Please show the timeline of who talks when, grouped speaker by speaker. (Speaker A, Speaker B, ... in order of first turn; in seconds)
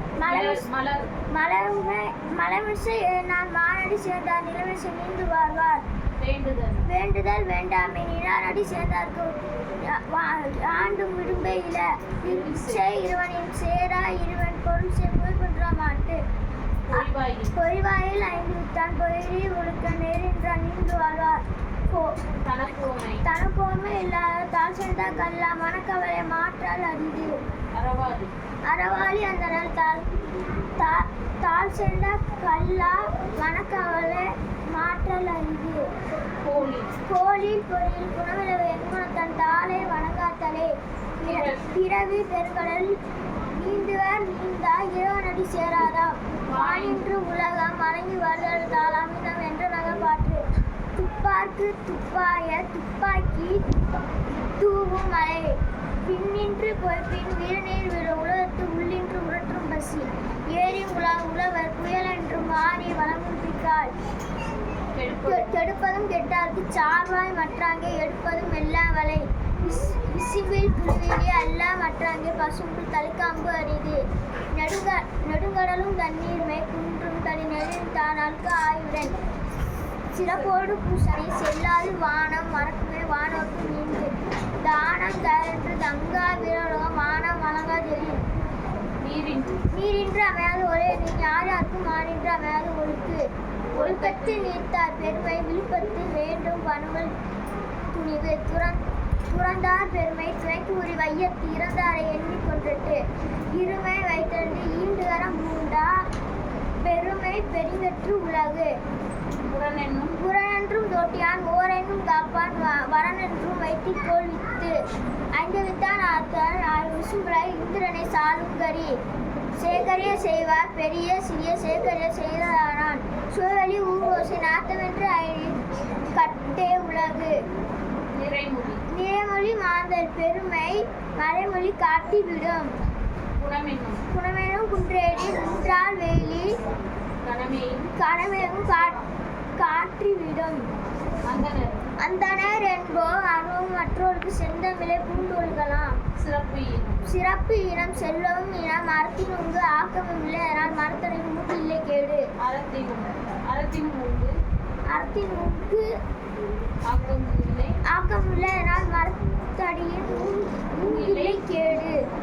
Speaker A: 0.2-0.7, 1.3-5.8, 6.9-16.2, 16.9-22.1, 23.2-27.4, 28.7-30.2, 30.8-35.9, 37.0-43.0, 43.5-50.4, 51.0-53.7, 54.6-63.9, 65.3-74.0, 74.5-79.2, 80.1-88.2, 89.7-97.2, 97.9-106.0, 106.8-108.7, 110.1-114.8, 115.3-119.0, 119.6-125.6, 126.2-127.4, 128.9-132.7, 134.1-136.6, 138.0-139.0, 139.6-140.7, 142.0-146.0, 147.1-152.3, 154.9-155.9, 157.8-162.0
Speaker B: 0.3-1.1, 6.2-6.9, 12.2-12.8, 16.9-17.6, 22.4-23.3, 27.7-28.3, 36.4-37.0, 41.2-41.6, 46.5-47.1, 64.9-65.6, 89.0-89.7, 93.8-94.6, 109.4-110.2, 128.1-128.8, 133.4-134.0, 137.2-137.9, 141.2-141.9, 146.2-147.1, 152.4-154.4, 156.8-157.8, 160.8-161.4